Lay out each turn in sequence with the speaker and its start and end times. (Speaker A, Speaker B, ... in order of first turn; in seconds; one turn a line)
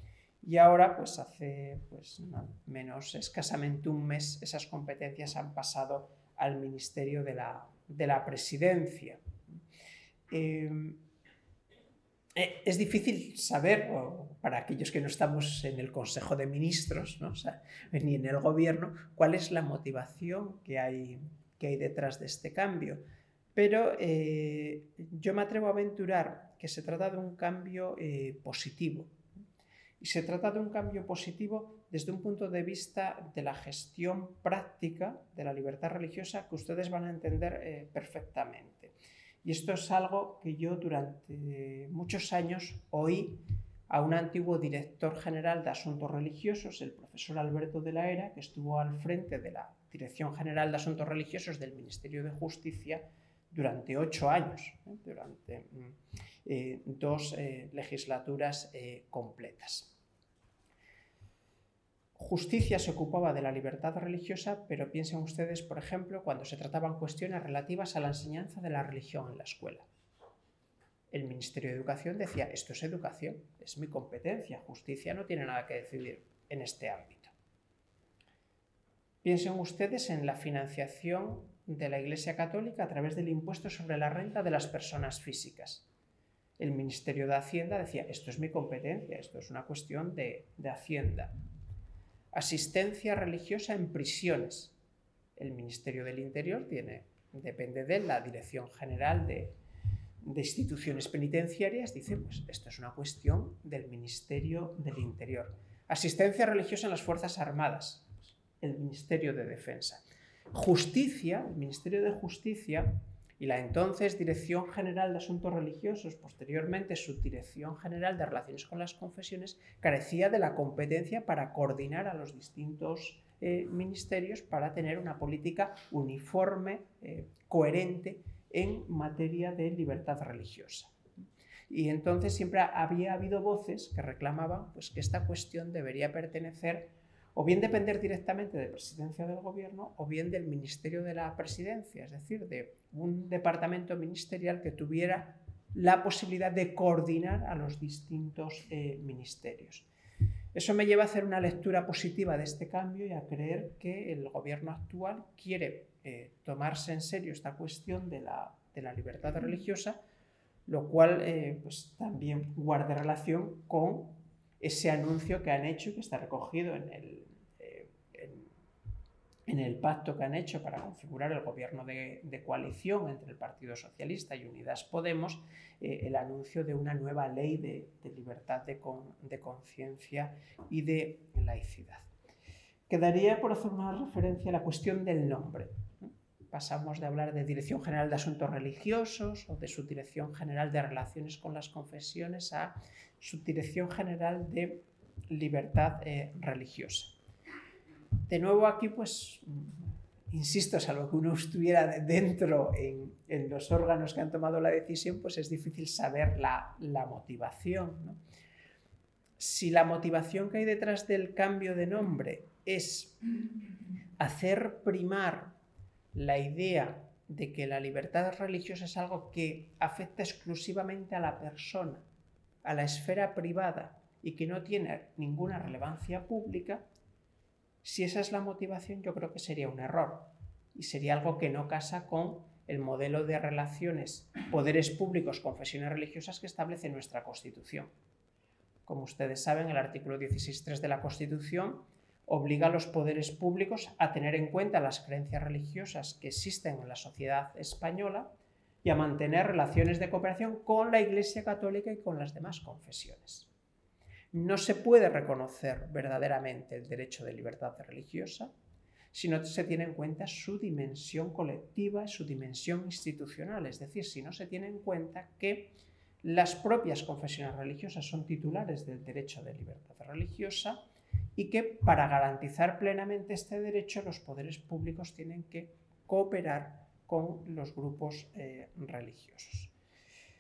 Speaker A: 0.4-9.2
Speaker A: 10.3-11.0
Speaker A: 12.3-23.0
Speaker A: 23.6-29.1
Speaker A: 30.0-60.0
Speaker A: 62.2-69.9
Speaker A: 71.1-77.3
Speaker A: 79.2-85.9
Speaker A: 86.6-91.4
Speaker A: 92.3-94.8
Speaker A: 95.4-99.6
Speaker A: 100.2-130.9
Speaker A: 131.7-149.9
Speaker A: 150.5-160.0
Speaker A: 160.7-168.5
Speaker A: 169.5-182.1
Speaker A: 182.9-197.2
Speaker A: 198.3-208.2
Speaker A: 209.4-213.2
Speaker A: 214.2-215.5
Speaker A: 216.2-222.1
Speaker A: 222.6-226.8
Speaker A: 227.8-237.9
Speaker A: 238.9-248.3
Speaker A: 248.8-253.5
Speaker A: 254.3-258.5
Speaker A: 259.1-270.8
Speaker A: 271.4-279.7